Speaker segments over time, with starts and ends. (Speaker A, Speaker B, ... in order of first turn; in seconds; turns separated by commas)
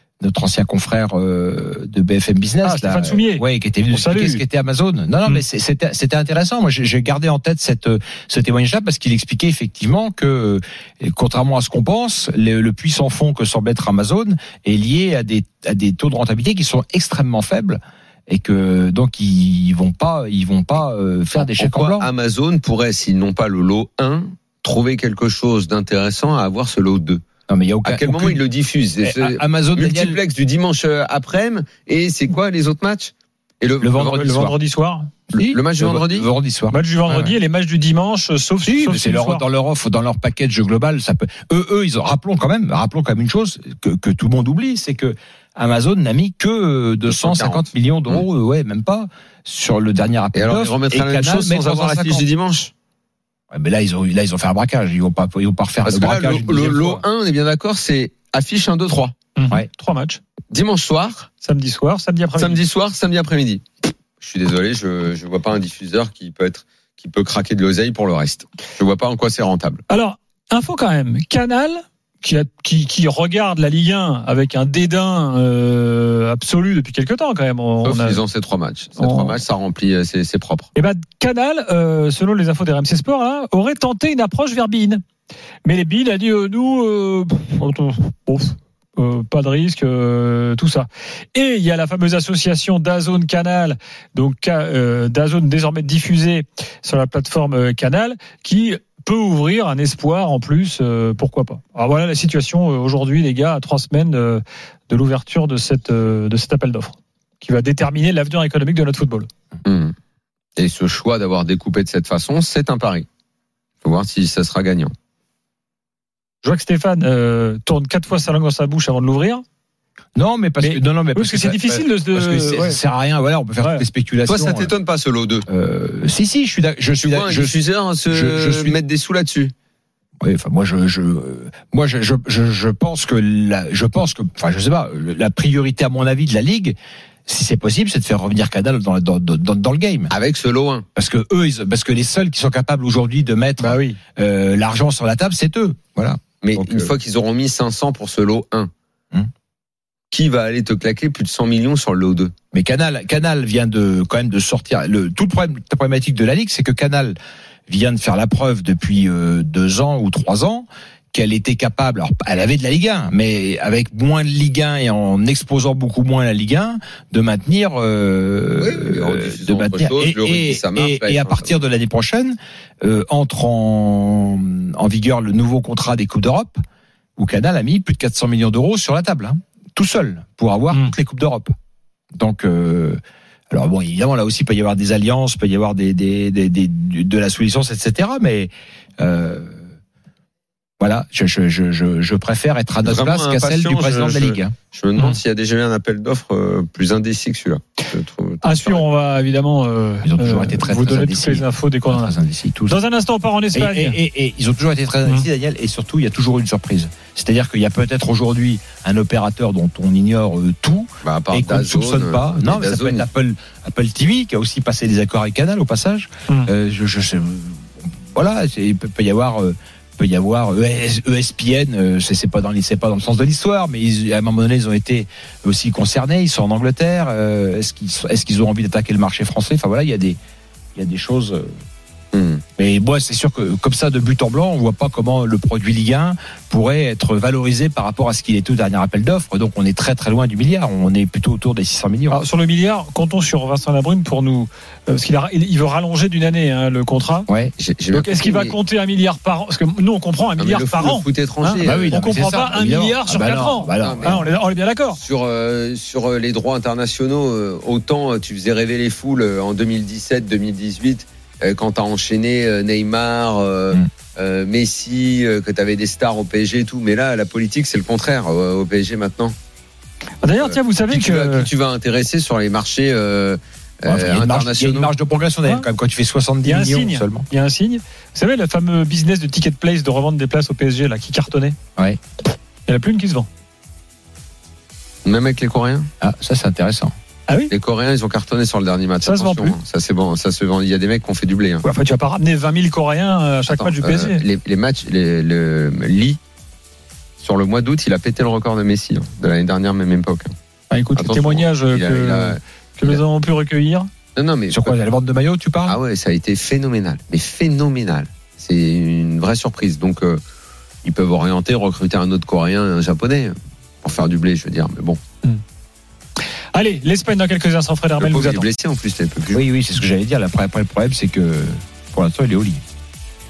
Speaker A: 0.2-22.1, Speaker B: 2.6-4.4, Speaker C: 21.3-27.2, Speaker A: 27.5-28.4, Speaker C: 27.8-34.5, Speaker A: 29.0-30.2, Speaker A: 33.8-34.1, Speaker B: 33.9-35.1, Speaker C: 35.3-36.3, Speaker A: 35.3-37.3, Speaker B: 36.7-39.4, Speaker A: 38.6-52.3, Speaker C: 47.1-48.2, Speaker C: 50.3-52.7, Speaker A: 53.5-57.0, Speaker C: 55.9-59.1, Speaker B: 59.4-60.2, Speaker C: 60.5-61.3, Speaker B: 61.4-62.6, Speaker C: 62.4-63.6, Speaker C: 64.2-69.8, Speaker B: 69.9-78.2, Speaker C: 77.8-80.7, Speaker B: 79.0-79.3, Speaker B: 80.7-85.0, Speaker B: 85.6-109.3, Speaker C: 109.6-109.9, Speaker C: 110.6-113.0, Speaker C: 113.8-114.9, Speaker B: 116.4-119.4, Speaker A: 120.2-124.7, Speaker B: 120.6-122.8, Speaker B: 123.6-123.8, Speaker C: 124.2-125.5, Speaker A: 125.5-128.8, Speaker C: 127.0-129.5, Speaker A: 130.2-136.8, Speaker A: 137.3-140.1, Speaker C: 140.1-140.8, Speaker A: 140.9-146.9, Speaker B: 143.6-144.0, Speaker C: 146.4-148.7, Speaker C: 150.1-152.3, Speaker A: 152.5-157.2, Speaker A: 157.7-176.6, Speaker C: 168.6-171.6, Speaker A: 177.2-181.5, Speaker A: 182.2-183.0, Speaker A: 183.5-189.7, Speaker A: 190.8-194.5, Speaker C: 192.8-198.8, Speaker B: 198.4-202.1, Speaker A: 200.0-202.8, Speaker B: 202.7-204.0, Speaker A: 203.5-230.2, Speaker C: 211.0-213.1, Speaker A: 230.7-231.5, Speaker C: 232.1-232.4, Speaker A: 232.6-242.2, Speaker B: 242.1-247.3, Speaker A: 247.3-247.5, Speaker C: 247.6-248.6, Speaker B: 247.9-255.0, Speaker C: 250.4-252.0, Speaker A: 251.6-254.2, Speaker C: 253.8-254.3, Speaker C: 255.0-269.3, Speaker B: 270.2-271.5, Speaker C: 270.2-274.9, Speaker A: 273.9-277.2, Speaker B: 276.4-281.6, Speaker B: 282.6-283.3, Speaker C: 285.0-285.9, Speaker A: 286.0-286.9, Speaker C: 287.5-291.6, Speaker B: 289.0-289.6, Speaker B: 291.6-294.2, Speaker C: 293.5-296.2, Speaker C: 297.2-300.3, Speaker B: 300.7-303.9, Speaker C: 300.9-303.0, Speaker C: 304.1-304.8, Speaker A: 304.5-305.8, Speaker C: 305.6-310.2, Speaker C: 310.8-315.0, Speaker B: 316.5-318.5, Speaker C: 318.0-319.4, Speaker A: 319.3-322.6